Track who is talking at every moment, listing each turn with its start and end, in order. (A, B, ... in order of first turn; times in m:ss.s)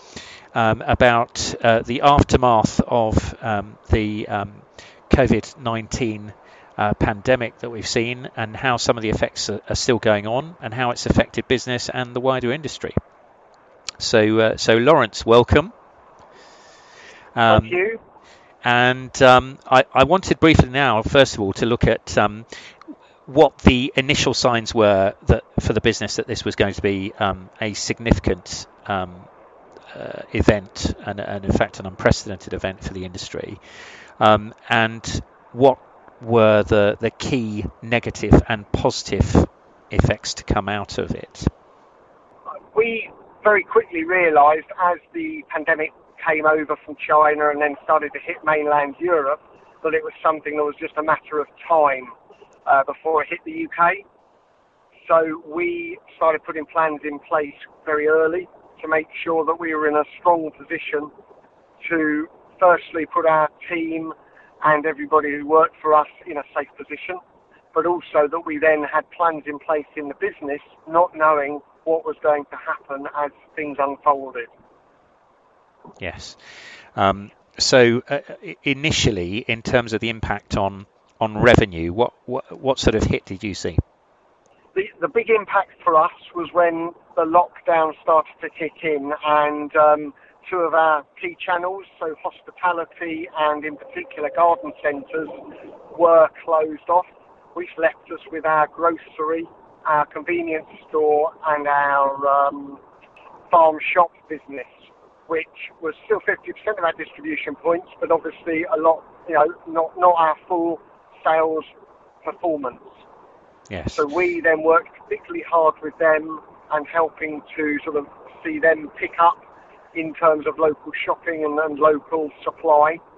0:00.5-0:13.0 A
0:14.0-0:15.7 A
0:17.4-0:17.8 A
0:17.5-0:18.0 B
0:18.6-0:22.6 A
0:23.3-0:29.3 A
0:29.9-0:33.6 A
0:34.2-0:41.5 A
0:42.7-0:52.1 B
0:52.7-0:54.0 B
0:55.0-1:01.1 B
1:01.8-1:07.2 B
1:07.7-1:14.5 B
1:16.0-1:16.4 A
1:17.0-1:23.8 A
1:24.8-1:42.8 B
1:43.5-1:44.7 B
1:45.3-1:51.7 B
1:52.2-1:52.9 B
1:53.7-1:54.0 A
1:53.9-1:59.4 B
1:59.9-2:03.0 B